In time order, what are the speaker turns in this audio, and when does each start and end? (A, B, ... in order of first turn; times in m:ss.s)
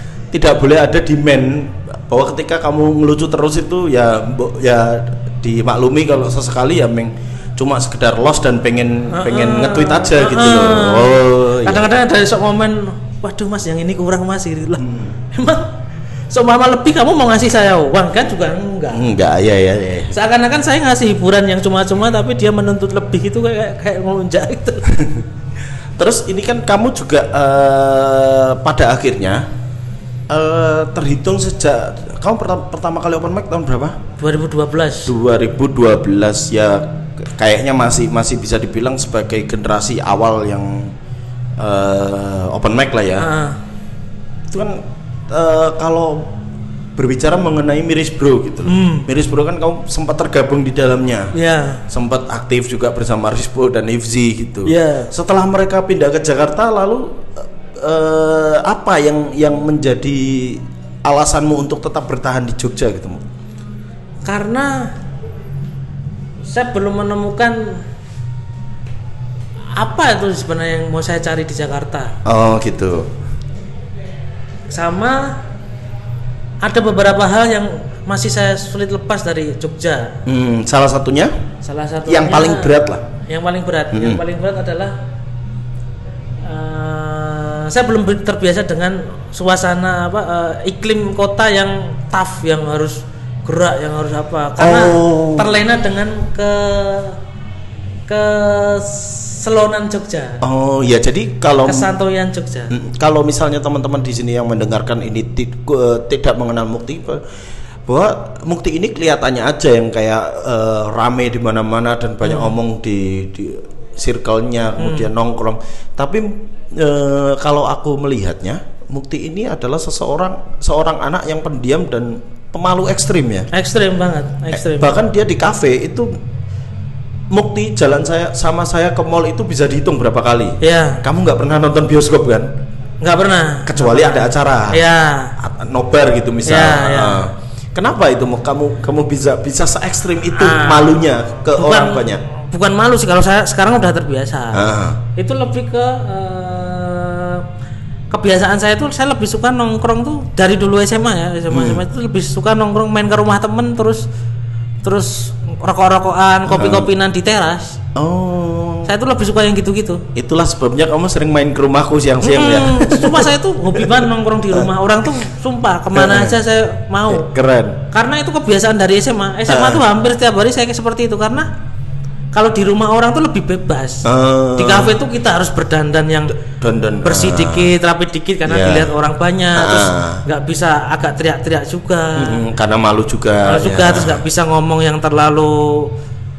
0:00.3-0:11.9 A
0:09.1-0:15.7 B
0:14.8-0:15.1 A
0:16.3-0:19.1 B
0:18.9-0:20.2 A
0:20.1-0:24.8 B
0:25.0-0:25.2 A
0:26.0-0:29.4 A
0:30.3-0:34.0 A
0:34.2-0:35.1 B
0:35.1-0:40.9 A
0:41.6-0:43.3 A
0:43.2-0:43.6 B
0:44.5-0:46.3 A
0:47.0-0:51.4 A
0:48.6-0:49.1 B
0:51.4-0:51.8 B
0:51.9-1:03.2 A
0:54.7-0:55.1 B
1:04.2-1:04.9 B
1:06.4-1:07.8 B
1:09.8-1:12.2 B
1:12.2-1:13.1 A
1:14.7-1:15.4 B
1:16.6-1:20.2 B
1:20.3-1:21.4 A
1:21.6-1:25.0 B
1:22.1-1:23.0 A
1:23.9-1:24.2 A
1:26.4-1:37.2 B
1:34.6-1:35.5 A
1:38.1-1:40.4 B
1:40.4-1:41.9 A
1:41.6-1:42.7 B
1:42.7-1:47.2 A
1:47.9-2:03.5 A
1:52.2-1:52.5 B
1:54.8-1:55.1 B
2:03.5-2:05.0 B
2:04.5-2:06.1 A
2:07.3-2:12.5 A
2:10.6-2:11.0 B
2:13.0-2:15.3 B
2:13.7-2:14.8 A
2:15.4-2:22.2 A
2:16.5-2:17.2 B
2:20.3-2:27.5 B
2:24.5-2:25.0 A
2:28.1-2:34.0 B
2:31.5-2:31.8 A
2:34.8-2:37.8 B
2:36.5-2:36.9 A
2:38.0-2:38.9 A
2:38.9-2:40.0 B
2:40.1-2:44.7 A
2:42.2-2:47.3 B
2:45.9-2:46.4 A
2:47.1-2:47.8 A
2:47.9-2:51.5 B
2:49.5-2:49.8 A
2:52.3-2:54.0 B
2:54.0-2:55.0 A
2:54.6-2:56.4 B
2:56.5-2:57.7 A
2:57.0-3:02.5 B
2:58.4-2:58.9 A
2:59.6-3:00.2 A
3:02.2-3:04.2 A
3:03.4-3:05.9 B